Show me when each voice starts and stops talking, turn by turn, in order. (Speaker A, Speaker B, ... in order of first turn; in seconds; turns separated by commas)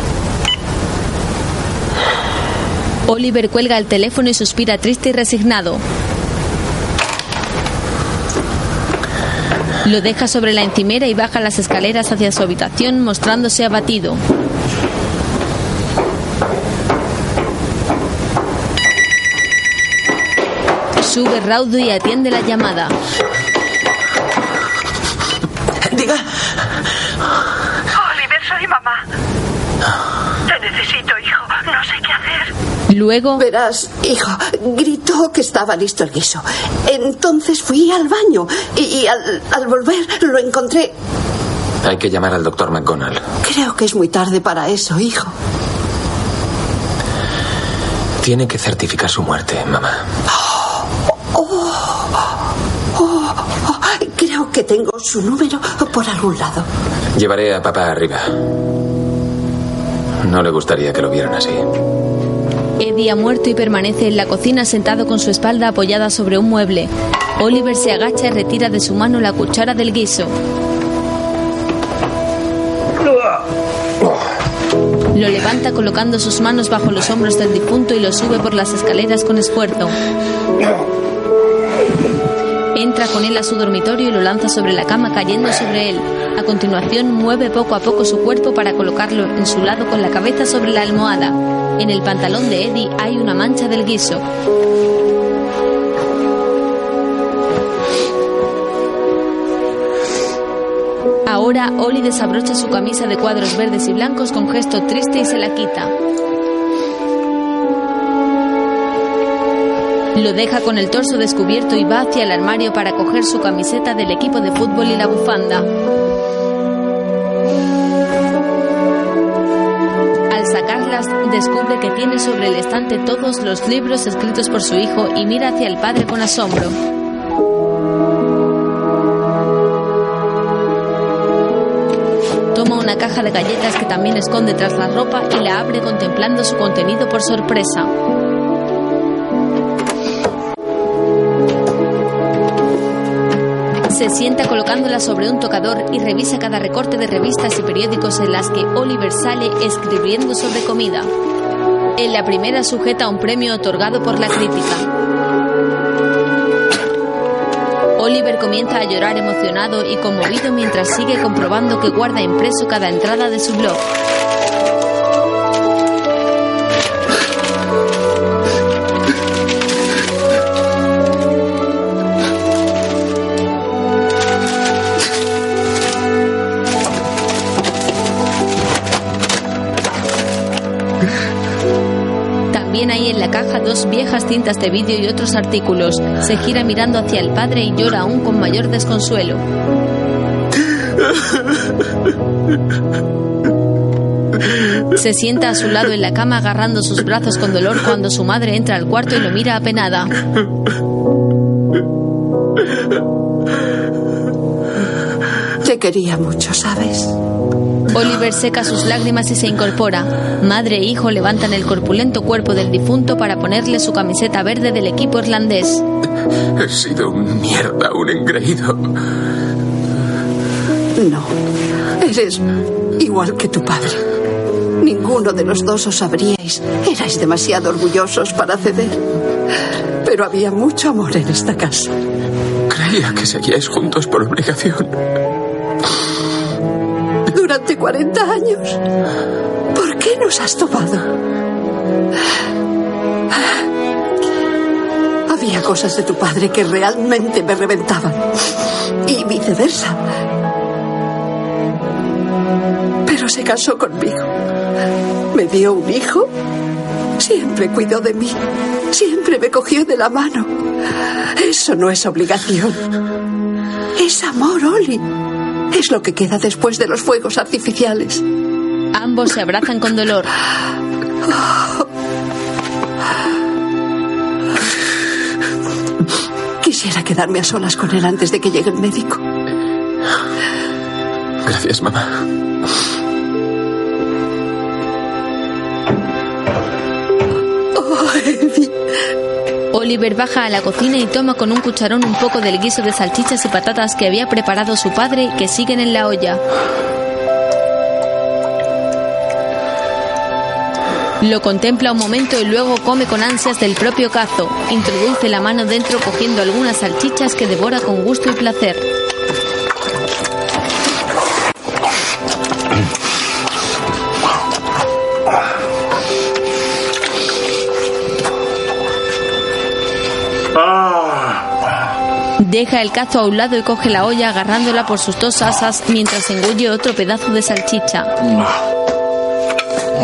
Speaker A: 3.1-5.8, Speaker A: 9.8-14.2, Speaker A: 21.0-22.9, Speaker B: 25.9-26.2, Speaker C: 28.1-28.9, Speaker C: 30.6-32.2, Speaker A: 32.9-33.4, Speaker D: 33.4-40.9, Speaker B: 41.8-43.2, Speaker D: 43.4-45.3, Speaker B: 48.2-50.0, Speaker D: 50.3-50.8, Speaker D: 51.3-52.1, Speaker D: 52.9-56.7, Speaker B: 57.1-58.3, Speaker B: 60.2-61.6, Speaker A: 62.8-70.3, Speaker A: 75.1-79.9, Speaker A: 82.7-94.2, Speaker A: 101.3-105.9, Speaker A: 110.1-115.7, Speaker A: 120.3-126.7, Speaker A: 132.5-137.9, Speaker A: 143.9-151.1, Speaker A: 152.0-154.8, Speaker A: 158.0-163.8, Speaker A: 182.5-189.4, Speaker A: 194.9-200.1, Speaker D: 205.6-207.1, Speaker A: 207.9-215.8, Speaker B: 216.6-218.9, Speaker D: 221.0-221.3, Speaker D: 222.0-222.4, Speaker D: 223.0-224.0, Speaker D: 224.8-229.0, Speaker D: 230.0-231.9, Speaker B: 232.7-234.9, Speaker D: 237.3-238.8, Speaker D: 239.7-241.1, Speaker D: 245.3-248.3, Speaker D: 249.1-250.0, Speaker D: 253.1-254.3, Speaker D: 255.3-256.3, Speaker D: 257.2-258.4, Speaker D: 258.9-260.5, Speaker D: 261.4-262.8, Speaker D: 263.9-265.1, Speaker D: 265.7-268.2, Speaker A: 268.9-270.3, Speaker D: 276.6-279.2, Speaker B: 281.4-282.1, Speaker D: 287.8-288.7, Speaker A: 289.7-296.4, Speaker A: 301.2-308.8, Speaker A: 322.4-328.4